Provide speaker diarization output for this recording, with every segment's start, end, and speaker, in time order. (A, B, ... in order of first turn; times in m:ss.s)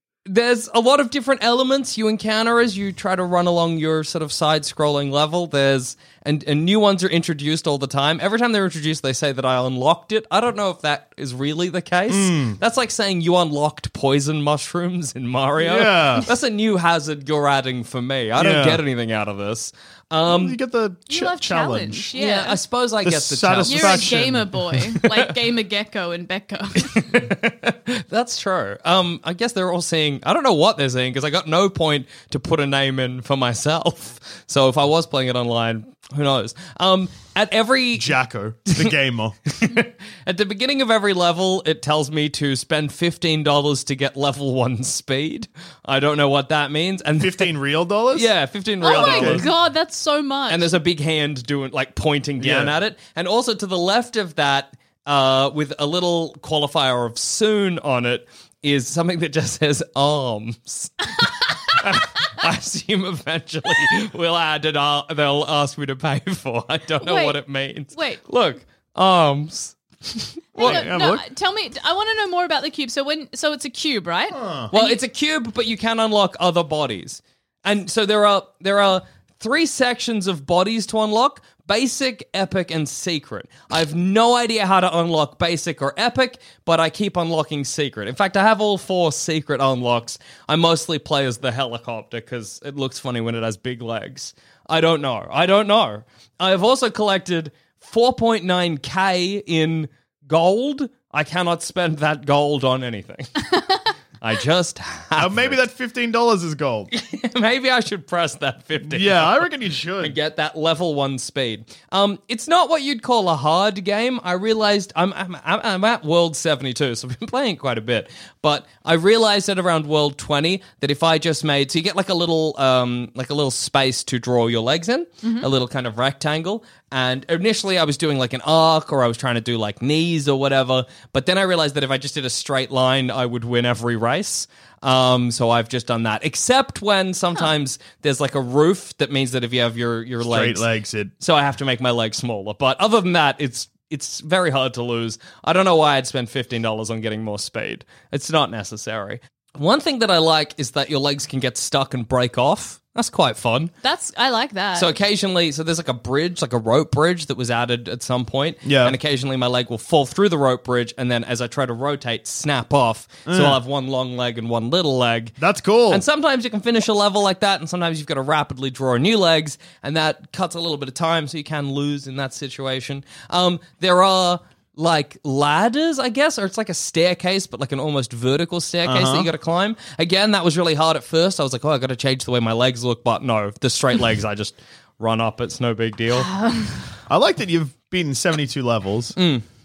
0:00.3-0:20.6 A
0:12.1-0:12.6 B
0:15.6-0:16.3 B
0:18.4-0:18.8 B
0:20.3-0:22.1 B
0:21.1-0:22.6 C
0:22.2-0:24.4 A
0:23.0-0:24.9 B
0:23.6-0:27.0 C
0:26.8-0:38.2 A
0:38.0-0:39.4 B
0:39.5-0:47.5 A
0:47.2-0:48.3 B
0:48.1-0:49.5 A
0:48.8-0:50.8 C
0:48.8-0:49.5 B
0:50.5-1:10.9 A
0:52.4-0:52.7 B
1:07.0-1:07.4 C
1:07.9-1:08.2 C
1:10.6-1:15.0 C
1:10.6-1:11.2 B
1:14.3-1:14.7 B
1:14.7-1:43.4 A
1:44.2-1:45.6 A
1:45.2-1:46.9 B
1:46.9-2:20.7 A
1:48.8-1:50.2 B
2:05.2-2:05.5 C
2:20.3-2:21.1 B
2:21.2-2:33.7 A
2:33.8-2:34.9 C
2:34.8-2:45.4 A
2:38.6-2:39.0 B
2:43.3-2:43.6 B
2:45.4-2:46.0 B
2:45.9-3:06.3 A
2:58.9-2:59.3 B
3:06.1-3:06.8 C
3:07.1-3:09.2 B
3:09.2-3:09.4 A